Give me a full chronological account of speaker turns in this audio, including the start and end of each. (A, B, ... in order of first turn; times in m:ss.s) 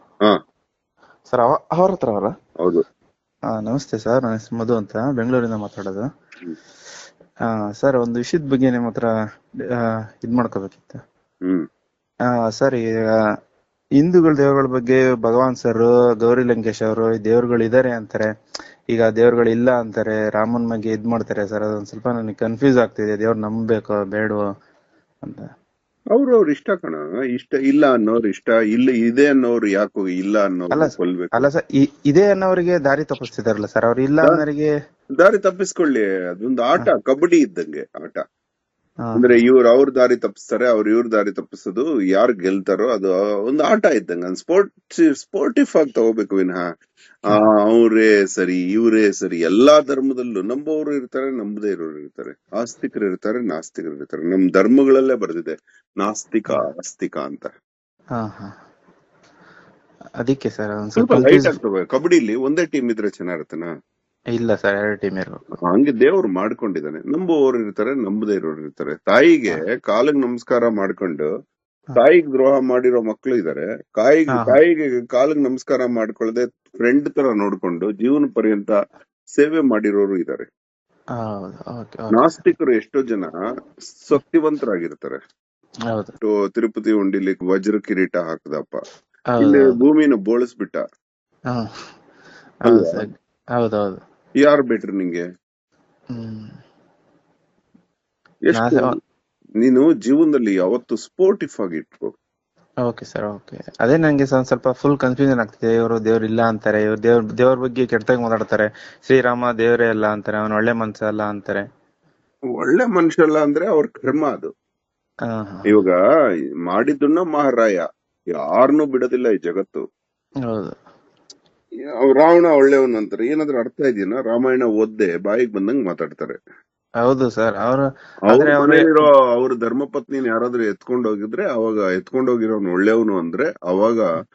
0:01.3-0:02.3 A
0:03.6-0:06.0 A
0:07.8-0:09.1 A
0:10.2-0:11.0 A
0:12.6-0:12.8 A
0:14.0-0:18.2 A
0:18.9-0:24.4 A
0:26.1-0:31.4 B
0:30.7-0:34.7 A
0:35.2-0:38.2 B
0:39.0-0:39.4 A
0:39.2-0:46.6 B
0:47.3-0:57.5 B
0:58.2-0:58.5 A
1:00.2-1:01.5 A
1:01.0-1:03.7 B
1:04.4-1:05.4 A
1:05.7-1:11.3 B
1:12.0-1:18.8 B
1:14.3-1:14.6 A
1:19.3-1:20.5 B
1:21.2-1:22.1 A
1:22.1-1:23.3 B
1:24.0-1:25.2 B
1:26.2-1:28.8 B
1:29.4-1:29.7 A
1:29.4-1:30.8 B
1:32.6-1:34.0 A
1:32.6-1:33.0 B
1:34.4-1:35.2 B
1:36.1-1:36.5 A
1:38.5-1:38.9 B
1:38.5-1:38.9 A
1:39.6-1:42.1 B
1:42.9-1:51.6 A
1:52.6-1:54.5 B
1:55.3-1:55.6 A
1:55.7-1:55.9 B
1:56.7-1:57.8 B
1:58.4-1:59.8 B
2:00.5-2:00.8 A
2:02.0-2:06.4 B
2:07.0-2:09.1 A
2:08.3-2:14.1 B